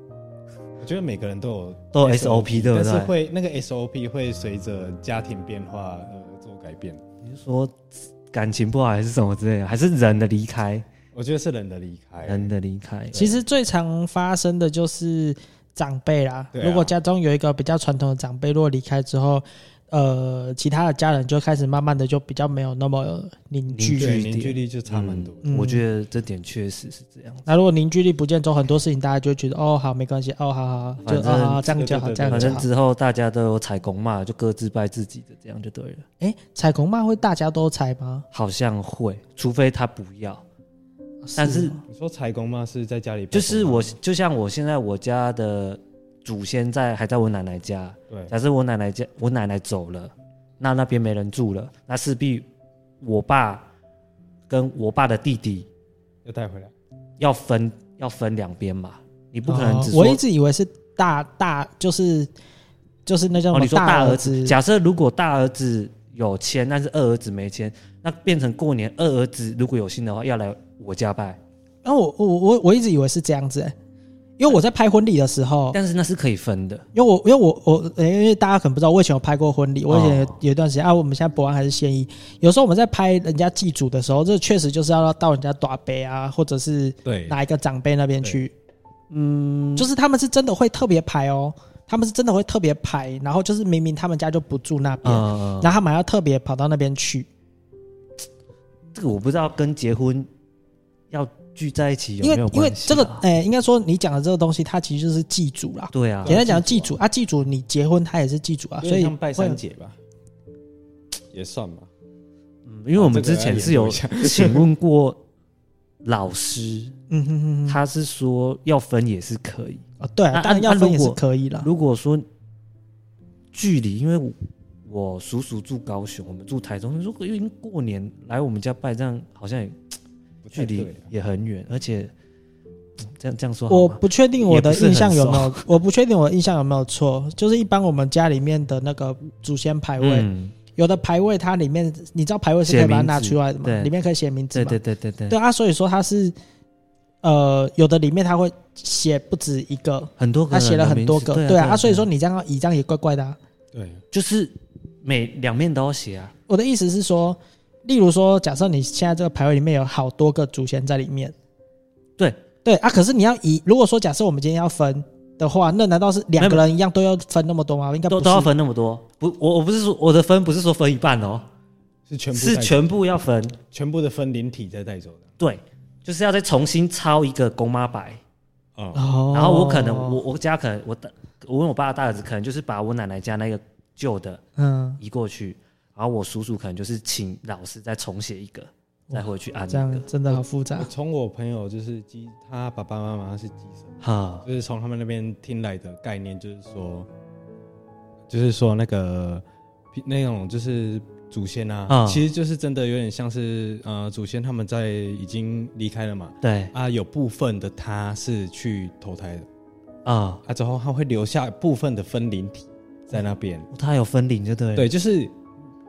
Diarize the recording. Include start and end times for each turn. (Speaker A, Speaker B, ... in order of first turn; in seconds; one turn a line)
Speaker A: 0.8-7.0
Speaker B: 1.9-3.1
Speaker B: 7.2-10.8
Speaker A: 11.1-12.5
Speaker B: 12.2-13.2
Speaker A: 13.1-13.4
Speaker C: 13.1-24.2
Speaker A: 16.5-16.9
Speaker B: 23.7-27.5
Speaker A: 24.0-25.5
Speaker C: 25.4-25.8
Speaker C: 27.5-32.7
Speaker B: 31.0-31.7
Speaker A: 31.7-32.7
Speaker B: 32.3-36.0
Speaker C: 36.2-38.2
Speaker B: 38.3-40.4
Speaker C: 41.2-41.8
Speaker B: 41.4-41.8
Speaker A: 41.9-43.9
Speaker B: 43.3-52.5
Speaker B: 53.0-53.7
Speaker B: 54.5-55.7
Speaker A: 56.2-56.7
Speaker B: 57.2-60.2
Speaker C: 59.5-62.3
Speaker C: 63.1-64.6
Speaker B: 63.5-71.4
Speaker C: 71.8-73.7
Speaker C: 74.4-75.8
Speaker B: 75.7-76.8
Speaker C: 76.9-88.5
Speaker B: 79.9-80.4
Speaker A: 87.0-87.4
Speaker B: 89.1-89.9
Speaker C: 89.8-97.3
Speaker B: 95.0-95.8
Speaker B: 99.0-100.3
Speaker B: 101.1-103.2
Speaker C: 102.2-109.6
Speaker B: 105.9-106.4
Speaker A: 106.2-107.0
Speaker A: 108.8-110.0
Speaker A: 111.3-111.9
Speaker B: 112.7-115.2
Speaker A: 113.0-114.7
Speaker B: 116.0-117.0
Speaker C: 117.1-117.8
Speaker B: 117.7-122.2
Speaker C: 120.0-121.7
Speaker B: 123.5-124.4
Speaker B: 124.9-129.8
Speaker A: 130.4-131.1
Speaker B: 130.5-132.1
Speaker B: 133.1-135.7
Speaker C: 133.7-146.3
Speaker B: 140.0-140.5
Speaker B: 142.7-143.9
Speaker B: 144.5-145.4
Speaker C: 147.2-153.4
Speaker B: 150.2-152.1
Speaker A: 153.7-154.0
Speaker B: 154.1-156.3
Speaker C: 156.5-161.3
Speaker C: 162.7-168.5
Speaker B: 166.4-166.7
Speaker B: 168.1-171.5
Speaker A: 172.1-172.9
Speaker B: 172.3-173.6
Speaker A: 173.7-175.3
Speaker B: 175.4-178.2
Speaker A: 178.8-179.0
Speaker C: 178.9-180.2
Speaker B: 179.3-184.4
Speaker C: 184.6-185.0
Speaker B: 185.0-190.1
Speaker C: 189.1-190.9
Speaker A: 190.3-197.1
Speaker B: 194.0-194.4
Speaker A: 198.3-209.5
Speaker B: 201.9-202.2
Speaker B: 206.4-206.7
Speaker B: 210.1-210.4
Speaker A: 210.4-213.7
Speaker B: 213.7-214.9
Speaker A: 214.8-215.3